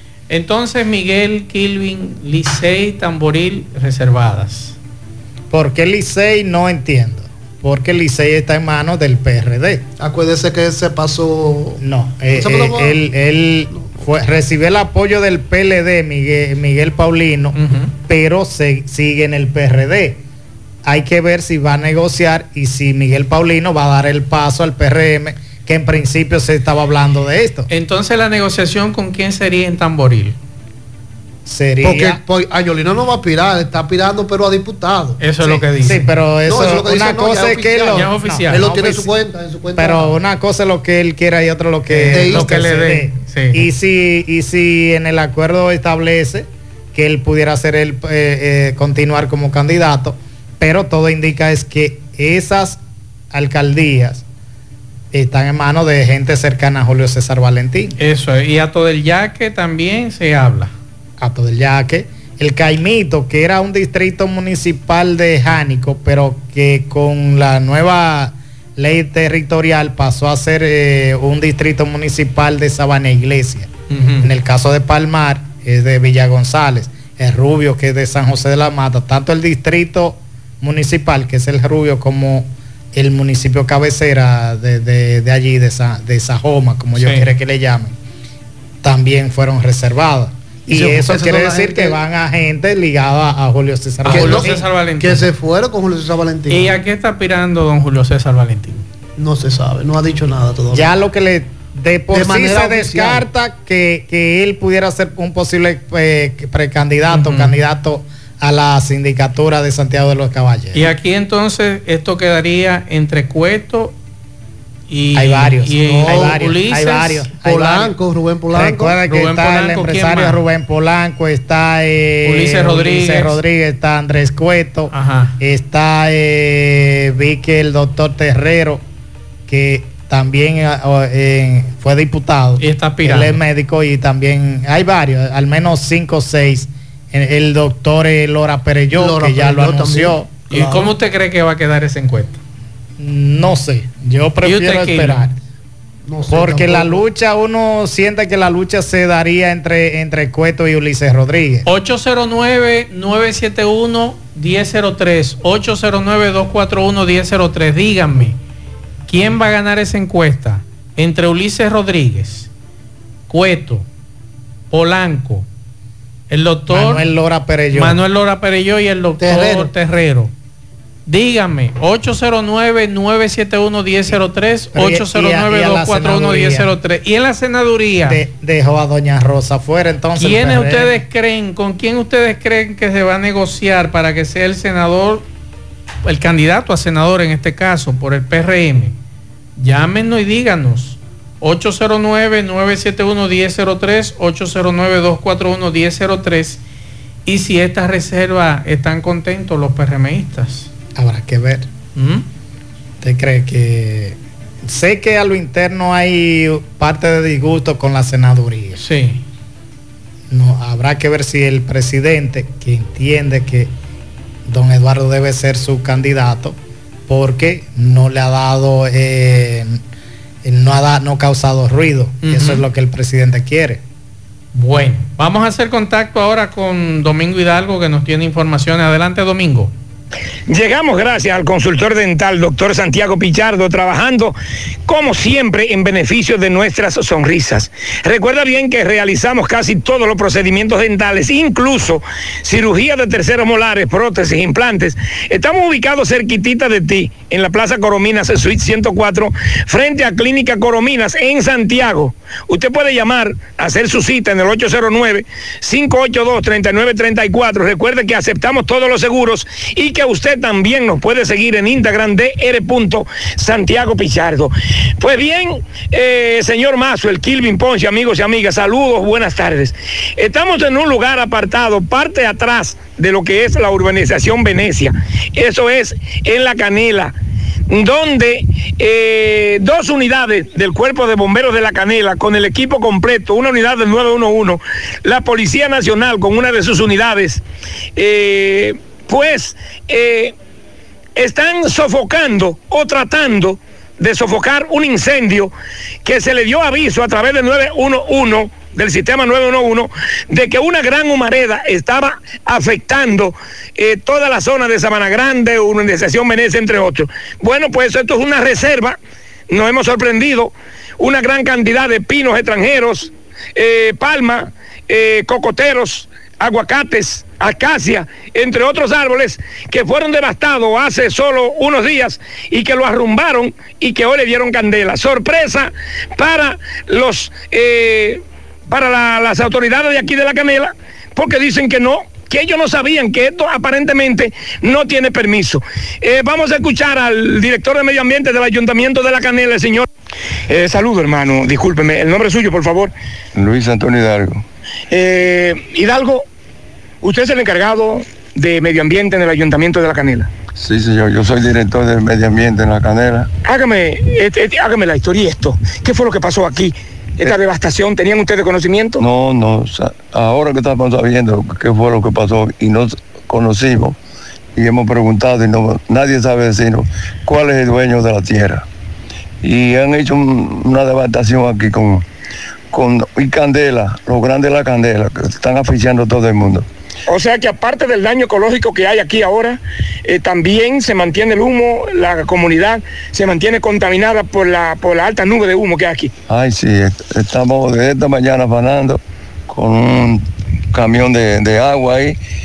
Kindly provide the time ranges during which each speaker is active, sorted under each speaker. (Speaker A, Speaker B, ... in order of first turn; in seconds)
Speaker A: 0.3-4.8, 17.6-17.9, 27.7-30.4, 35.2-36.1, 37.9-38.6, 41.9-43.6, 58.0-60.7, 73.9-74.3, 87.0-87.3, 94.1-95.3, 96.5-98.8, 107.1-107.6, 110.7-113.9, 114.9-117.3, 119.1-120.4, 122.2-123.4, 124.9-125.4, 132.6-133.4, 140.5-142.4, 144.4-145.3, 151.7-158.4, 159.1-162.5, 163.3-163.9, 164.7-165.5, 166.3-167.0, 167.7-170.3, 171.1-178.2, 180.2-185.2, 186.1-189.0, 189.6-196.6, 197.3-200.7, 202.0-202.2, 208.8-209.2, 222.2-222.7, 224.5-229.7
Speaker B: 5.5-9.8, 11.8-17.6, 18.1-20.2, 20.9-27.7, 31.5-32.2, 35.4-39.1, 39.8-52.8, 53.3-54.2, 55.1-58.0, 61.2-88.0, 88.8-94.6, 100.7-110.9, 115.1-118.0, 118.5-128.8, 129.5-140.3, 143.0-145.4, 146.3-151.7, 166.7-168.0, 174.7-176.7, 178.1-181.0, 200.9-201.7, 203.0-208.8, 210.3-213.7, 214.5-219.8, 220.4-223.8
Speaker C: 10.0-11.8, 12.3-13.0, 31.8-35.2, 36.5-40.1, 42.1-42.5, 90.7-92.0, 94.1-96.7, 99.2-100.9, 102.1-103.3, 115.9-116.4, 117.4-119.0, 138.9-140.9, 146.1-147.0, 169.2-169.7
Speaker D: 230.5-277.1, 277.7-287.4, 288.0-290.4, 291.2-295.5, 296.1-309.0, 309.5-339.9, 340.5-342.9, 344.9-346.2, 347.0-350.3, 353.5-359.0, 377.1-386.1
Speaker E: 343.4-344.4, 350.6-353.3, 359.0-364.0, 364.6-368.6, 369.4-372.0, 372.7-376.7, 386.3-392.2